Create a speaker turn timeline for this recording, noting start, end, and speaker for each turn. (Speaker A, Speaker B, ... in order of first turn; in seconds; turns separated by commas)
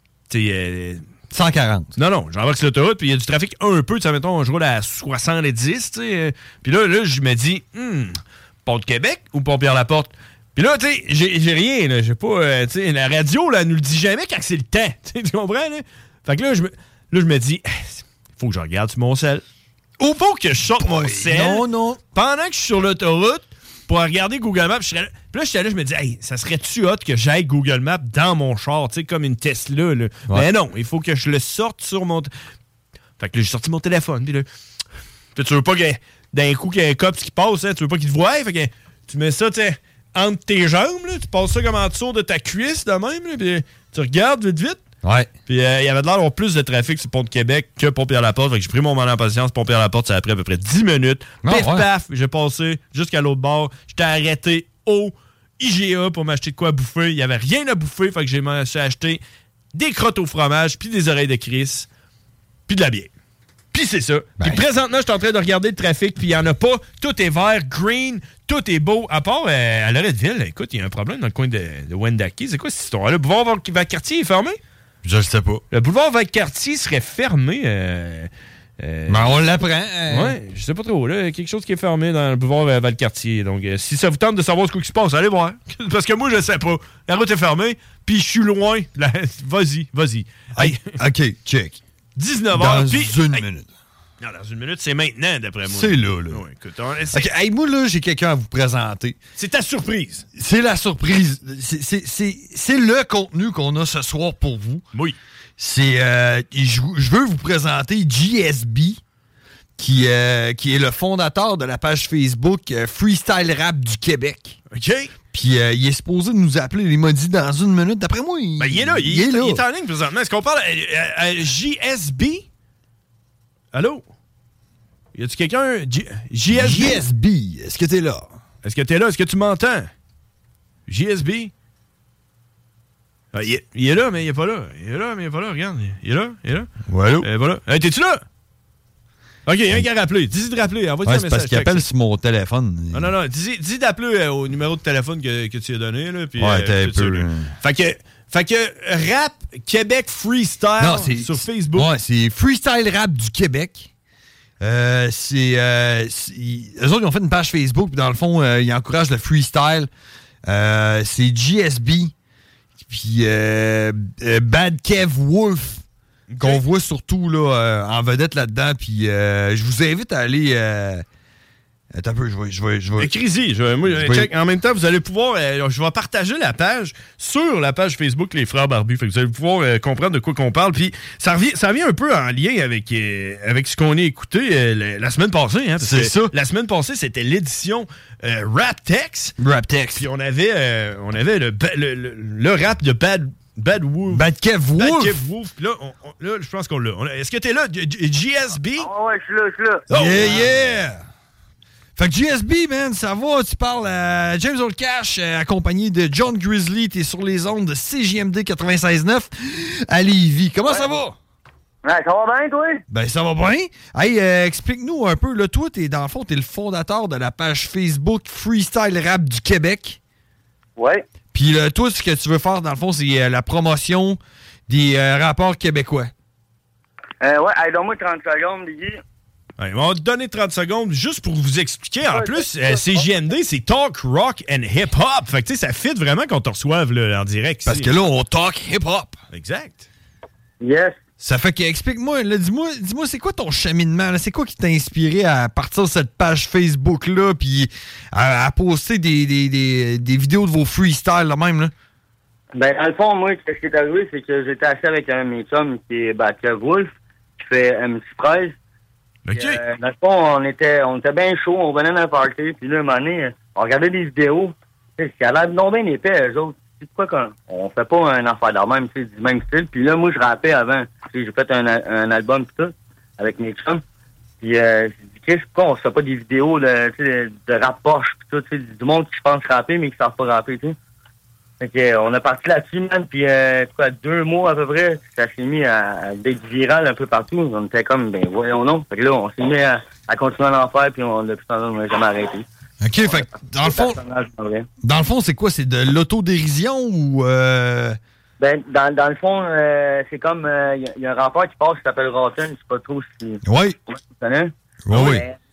Speaker A: 0.3-1.1, Speaker B: 1.3-1.9, Speaker A: 2.0-19.4, Speaker A: 20.0-32.3, Speaker B: 20.8-22.0, Speaker A: 33.2-34.5, Speaker A: 35.4-44.8, Speaker B: 45.0-45.3, Speaker A: 45.5-59.2, Speaker B: 51.4-51.9, Speaker A: 59.7-61.9, Speaker A: 62.7-63.1, Speaker A: 63.7-74.6, Speaker B: 75.0-75.6, Speaker A: 75.7-79.4, Speaker B: 79.1-80.4, Speaker A: 80.1-90.8, Speaker B: 90.6-91.8, Speaker A: 92.2-93.5, Speaker B: 92.5-93.7, Speaker A: 94.2-97.3, Speaker B: 95.7-96.4, Speaker B: 97.1-99.2, Speaker A: 99.4-100.2, Speaker B: 100.3-104.8, Speaker B: 105.6-109.0, Speaker B: 109.8-114.6, Speaker A: 114.7-115.1, Speaker B: 115.3-119.6, Speaker A: 118.6-122.5, Speaker A: 123.7-124.0, Speaker A: 125.1-127.0, Speaker B: 126.5-128.4, Speaker A: 128.6-129.9, Speaker A: 130.9-131.5, Speaker A: 133.3-138.2, Speaker B: 136.9-137.3, Speaker A: 139.5-141.8, Speaker B: 141.1-143.1, Speaker A: 142.9-151.9, Speaker B: 146.4-147.5, Speaker B: 150.8-153.9, Speaker B: 154.6-159.9, Speaker B: 160.5-162.1, Speaker B: 162.8-165.8, Speaker A: 166.3-166.6, Speaker B: 166.4-171.1, Speaker B: 171.9-173.1, Speaker A: 173.0-189.3, Speaker B: 173.8-174.3, Speaker B: 185.8-186.3, Speaker B: 189.4-190.1, Speaker A: 190.0-194.2, Speaker B: 194.1-195.2, Speaker A: 194.8-198.9, Speaker C: 198.8-199.8, Speaker A: 199.9-200.7, Speaker B: 199.9-201.0, Speaker B: 202.0-211.2, Speaker C: 211.8-212.8, Speaker B: 212.9-220.0, Speaker C: 220.8-221.0, Speaker B: 221.3-226.1, Speaker C: 227.2-229.0, Speaker A: 229.6-237.9, Speaker C: 232.1-233.1, Speaker B: 237.7-239.2, Speaker A: 239.3-239.9, Speaker C: 240.6-241.0, Speaker B: 241.2-251.7, Speaker C: 252.6-258.6, Speaker A: 259.3-259.6, Speaker C: 259.4-273.8, Speaker C: 274.4-280.8, Speaker C: 281.6-292.5, Speaker B: 292.8-294.0, Speaker C: 293.0-294.7, Speaker B: 294.8-298.0, Speaker C: 298.4-305.4, Speaker B: 303.4-303.8, Speaker B: 304.9-305.2